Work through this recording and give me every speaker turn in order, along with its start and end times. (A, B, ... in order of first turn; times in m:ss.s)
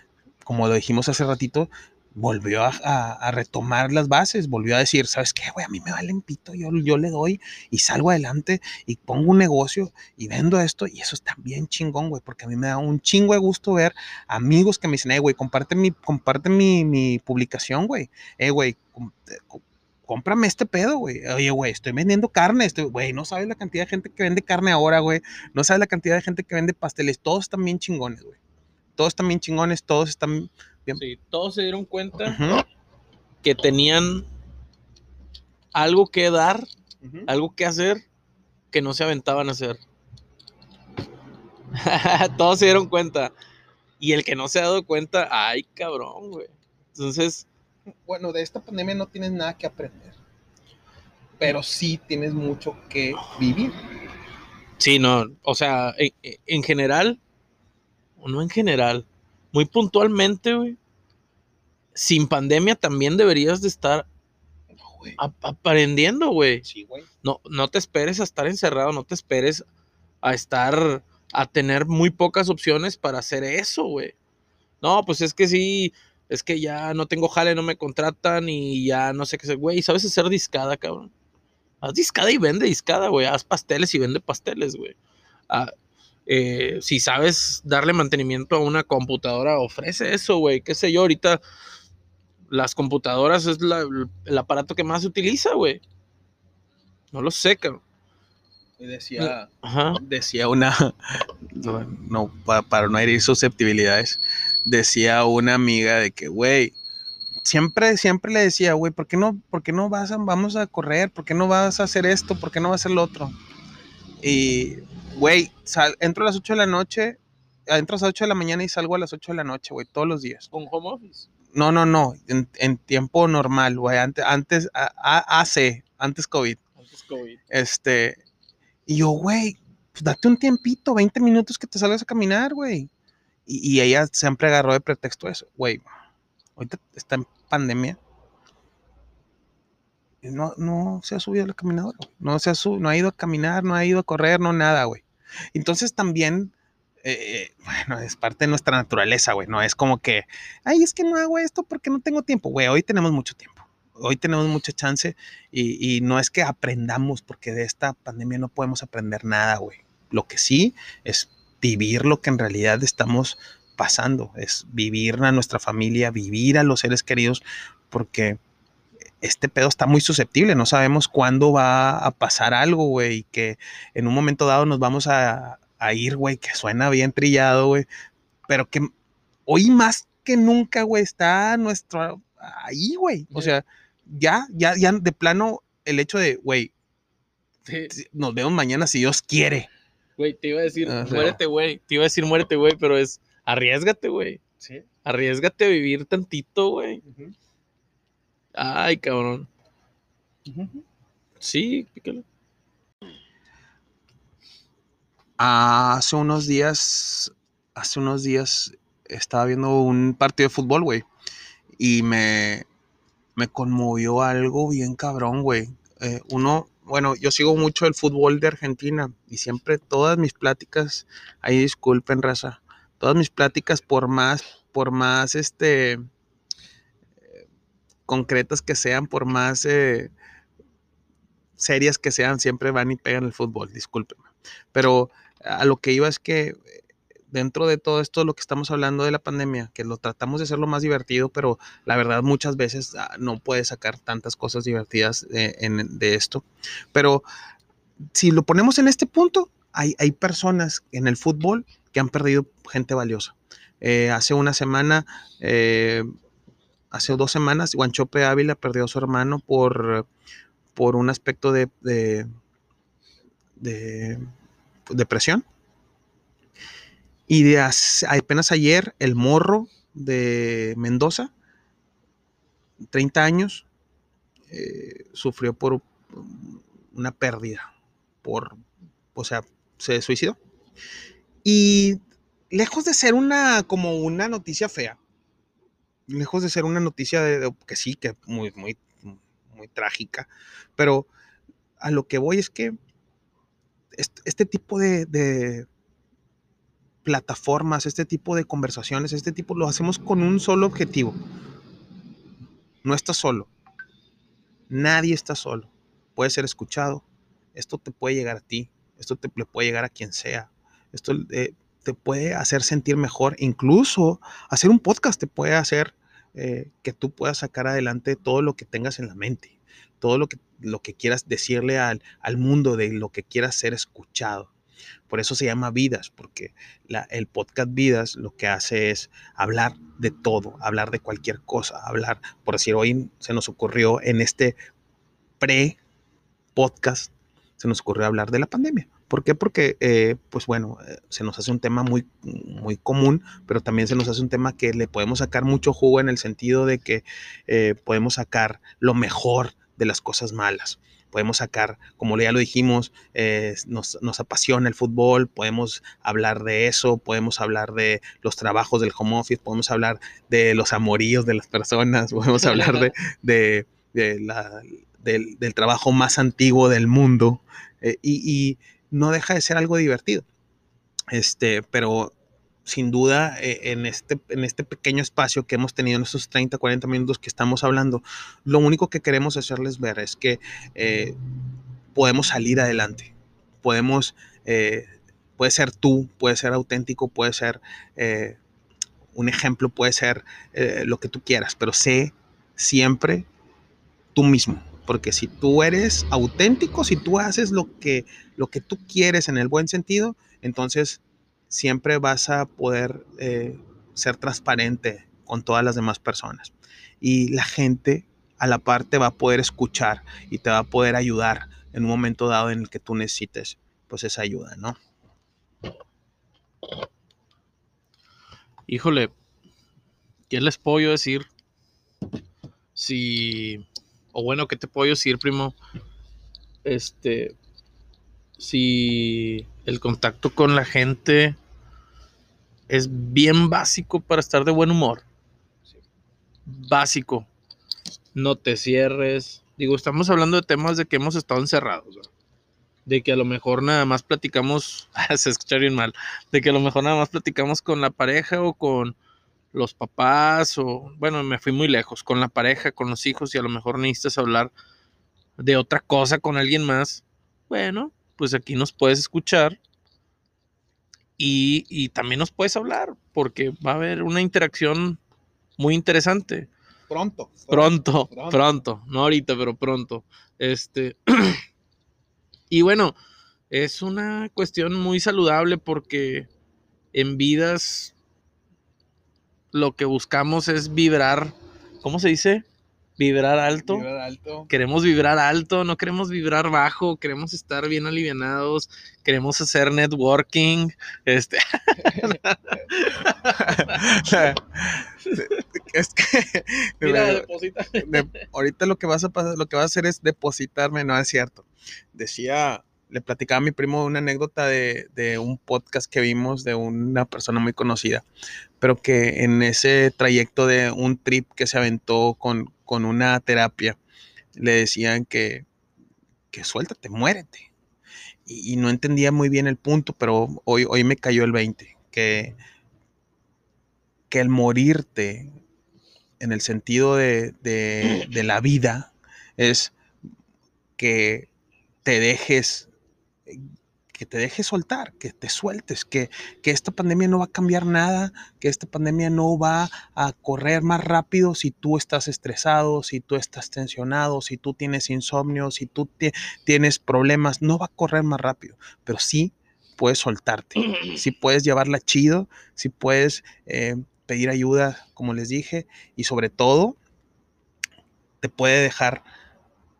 0:00.4-0:28.4 A
0:29.0-0:31.0 A
0:31.0-0:32.4 B
0:32.3-0:32.6 A
0:33.4-0:34.3 B
0:35.7-0:36.7 B
0:37.0-0:37.3 A
0:37.3-0:38.0 B
0:38.7-0:39.8 B
0:41.8-0:43.3 B
0:44.0-0:47.5 B
0:48.0-0:50.2 A
0:51.4-0:53.8 A
0:54.8-0:57.2 B
0:58.2-1:00.8 B
1:02.0-1:04.1 B
1:04.7-1:05.2 A
1:05.2-1:06.6 B
1:06.6-1:07.1 A
1:07.2-1:09.7 B
1:10.2-1:14.2 B
1:14.8-1:21.1 B
1:21.8-1:25.0 B
1:26.3-1:31.4 B
1:32.5-1:35.8 B
1:37.1-1:37.8 B
1:38.8-1:46.8 A
1:39.2-1:40.0 B
1:47.4-1:53.4 A
1:54.2-2:00.5 A
2:00.5-2:01.3 B
2:01.5-2:06.6 A
2:06.8-2:07.4 B
2:07.5-2:08.2 A
2:08.9-2:12.9 A
2:13.5-2:15.8 A
2:16.6-2:18.0 A
2:20.2-2:48.4 A
2:49.2-2:57.9 A
2:58.5-2:58.9 A
2:59.5-3:06.7 A
3:07.7-3:07.9 B
3:07.9-3:09.7 A
3:10.2-3:14.4 B
3:10.8-3:11.4 A
3:15.0-3:17.0 B
3:17.0-3:17.3 A
3:18.6-3:19.5 B
3:20.5-3:20.8 A
3:21.4-3:22.2 B
3:25.4-3:31.0 A
3:31.8-3:32.7 A
3:33.4-3:46.0 A
3:48.1-3:50.1 A
3:51.6-3:56.7 A
3:57.3-4:07.2 A
4:08.1-4:16.1 A
4:16.9-4:20.1 A
4:20.8-4:22.3 A
4:23.6-4:24.2 A
4:24.9-4:25.4 A
4:27.3-4:31.3 A
4:32.9-4:33.7 A
4:34.5-4:37.7 A
4:38.2-4:38.6 A
4:39.2-4:40.4 A
4:41.4-4:42.0 A
4:42.5-4:45.0 A
4:46.1-4:51.1 A
4:51.8-4:52.8 A
4:54.0-4:55.7 A
4:57.0-5:01.2 A
5:02.8-5:03.5 A
5:04.7-5:24.5 A
5:25.1-5:34.6 A
5:35.4-5:35.8 A
5:36.6-6:10.3 A
6:02.4-6:02.9 B
6:11.1-6:21.2 A
6:22.0-6:28.4 A
6:29.1-6:33.3 A
6:34.2-6:54.8 A
6:58.7-6:59.1 B
7:00.3-7:01.3 B
7:02.8-7:05.6 B
7:06.6-7:07.4 B
7:08.4-7:11.4 B
7:12.7-7:15.1 B
7:16.5-7:17.3 B
7:18.2-7:22.1 B
7:22.9-7:29.0 B
7:29.5-7:34.5 B
7:35.4-7:39.6 B
7:41.2-7:45.0 B
7:45.6-7:46.5 B
7:46.9-7:48.4 A
7:47.5-7:51.4 B
7:52.5-7:53.0 B
7:53.5-7:56.3 B
7:56.9-7:58.0 B
7:59.5-8:02.5 B
8:03.0-8:03.9 B
8:03.7-8:04.5 A
8:04.5-8:13.8 B
8:11.8-8:12.2 A
8:13.2-8:17.3 A
8:15.1-8:15.4 B
8:16.8-8:18.2 B
8:17.8-8:28.1 A
8:28.6-8:33.8 A
8:34.4-8:35.5 A
8:36.3-8:37.5 A
8:38.3-8:42.4 A
8:44.1-8:45.3 A
8:46.2-8:49.7 A
8:50.8-8:51.3 A
8:51.8-8:52.7 A
8:53.3-9:16.8 A
9:18.2-9:19.0 A